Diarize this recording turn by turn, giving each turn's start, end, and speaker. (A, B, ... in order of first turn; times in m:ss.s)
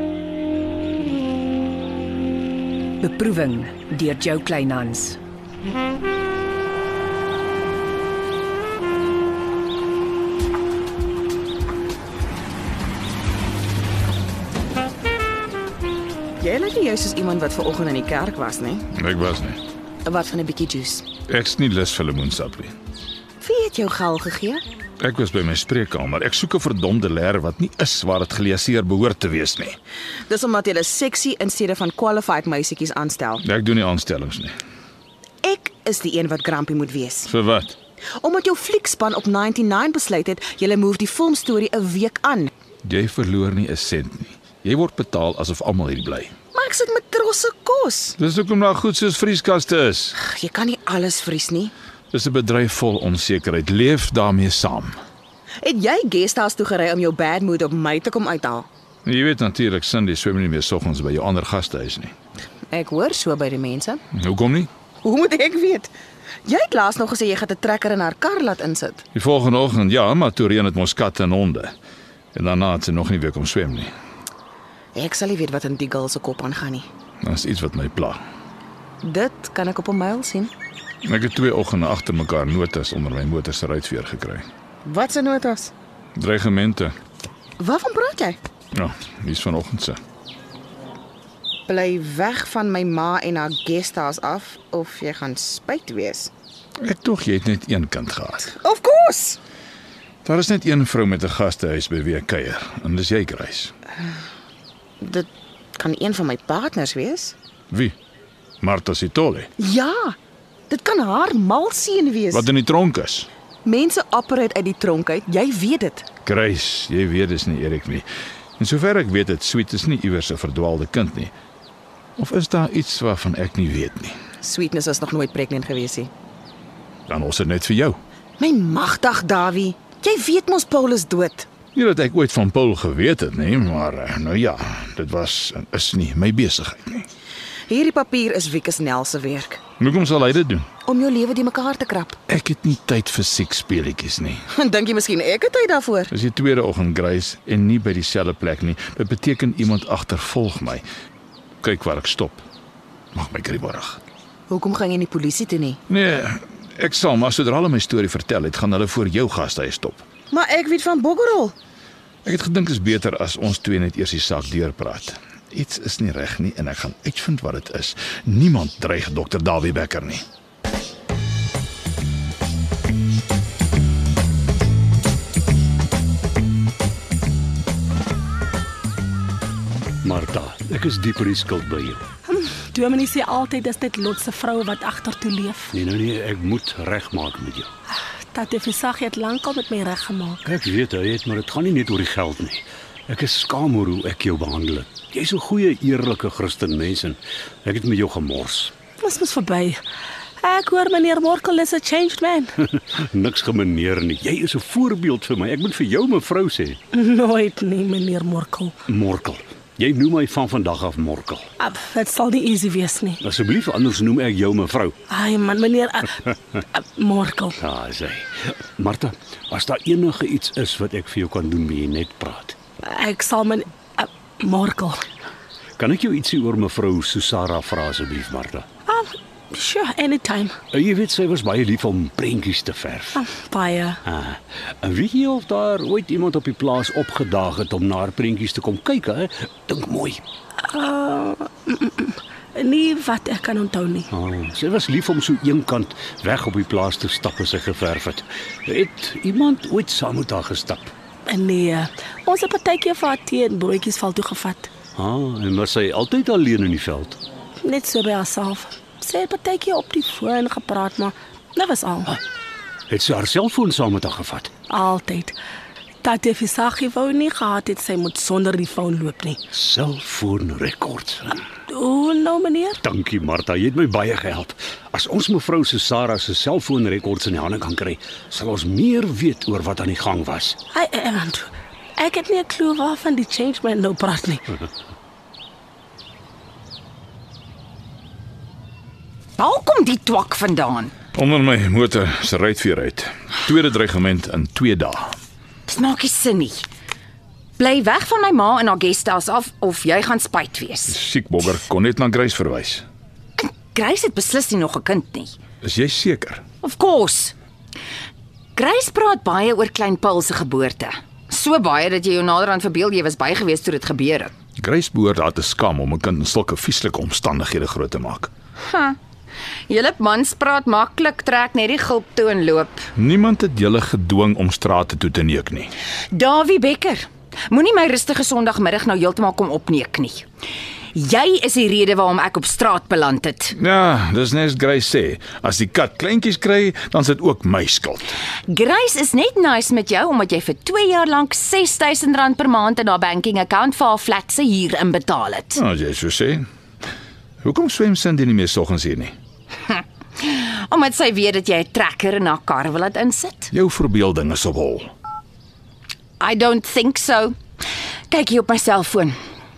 0:03.0-0:05.2 A
0:16.4-0:18.9 B
0:19.0-0:19.6 C
0:20.0-0:21.0 B
0:21.3-0:22.8 C
0:23.4-0:24.6 B
0:25.0-0:29.8 C
0:30.3-0:33.4 B
0:33.4-0:34.5 C
0:35.4-0:37.3 B
0:37.3-0:37.8 C
0:38.2-0:42.5 B
0:42.8-0:46.3 C
0:46.5-0:48.2 B
0:48.2-0:50.2 C
0:50.2-0:51.7 B
0:52.1-0:55.0 C
0:55.6-0:58.7 B
0:59.1-1:02.1 C
1:02.7-1:04.0 B
1:04.2-1:04.7 C
1:05.0-1:05.9 B
1:06.4-1:09.0 B
1:09.2-1:11.7 C
1:12.3-1:13.9 C
1:15.0-1:16.9 B
1:17.2-1:18.2 C
1:19.0-1:20.5 B
1:21.0-1:24.5 C
1:24.8-1:25.7 B
1:26.2-1:26.9 C
1:27.6-1:28.4 B
1:28.7-1:30.0 C
1:31.7-1:36.3 B
1:36.8-1:38.5 C
1:38.5-1:39.4 B
1:40.2-1:43.7 C
1:45.0-1:47.4 B
1:48.6-1:49.5 C
1:49.6-1:50.2 B
1:50.7-1:52.5 B
1:52.3-1:53.3 C
1:53.6-1:56.1 B
1:56.2-1:58.0 C
1:58.6-2:01.3 C
2:02.2-2:04.2 C
2:04.4-2:06.1 B
2:07.1-2:08.0 C
2:08.4-2:11.5 B
2:11.8-2:17.1 C
2:17.7-2:19.6 B
2:19.8-2:20.7 C
2:20.9-2:22.2 B
2:22.3-2:24.4 C
2:24.6-2:26.1 B
2:26.1-2:30.8 C
2:31.6-2:32.4 C
2:33.2-2:34.0 C
2:34.5-2:35.8 B
2:35.9-2:40.1 C
2:40.3-2:41.5 B
2:42.2-2:50.2 C
3:00.0-3:02.0 D
3:02.3-3:05.8 E
3:05.7-3:07.7 D
3:08.3-3:10.4 E
3:10.4-3:18.7 D
3:19.0-3:19.8 E
3:20.4-3:22.5 E
3:22.6-3:26.8 D
3:26.9-3:28.8 E
3:28.9-3:31.5 D
3:31.6-3:33.2 E
3:33.2-3:35.0 D
3:35.1-3:37.6 E
3:37.6-3:42.6 D
3:42.8-3:45.0 E
3:45.8-3:48.7 D
3:48.9-3:50.6 E
3:50.7-3:53.2 D
3:53.1-3:54.0 E
3:54.1-4:00.2 D
4:00.6-4:04.1 E
4:04.1-4:10.9 D
4:11.3-4:14.7 E
4:15.0-4:17.2 D
4:17.6-4:22.2 E
4:22.9-4:24.6 D
4:24.7-4:25.4 E
4:26.0-4:29.4 E
4:29.5-4:31.4 D
4:31.7-4:32.8 E
4:32.8-4:40.6 D
4:40.7-4:44.5 E
4:49.4-4:50.9 F
4:51.2-4:55.2 C
4:55.7-4:56.7 F
4:57.6-5:01.0 F
5:00.9-5:02.8 C
5:03.4-5:05.4 F
5:05.6-5:06.4 C
5:06.6-5:07.3 F
5:08.6-5:14.3 F
5:14.6-5:18.3 C
5:18.6-5:19.0 F
5:19.7-5:22.9 F
5:23.0-5:25.7 C
5:26.1-5:30.2 F
5:30.9-5:33.6 F
5:33.6-5:38.0 C
5:38.5-5:45.6 F
5:45.6-5:46.4 C
5:47.4-5:49.1 C
5:49.7-5:53.5 F
5:53.5-5:54.9 C
5:56.2-5:57.4 F
5:58.1-5:59.2 F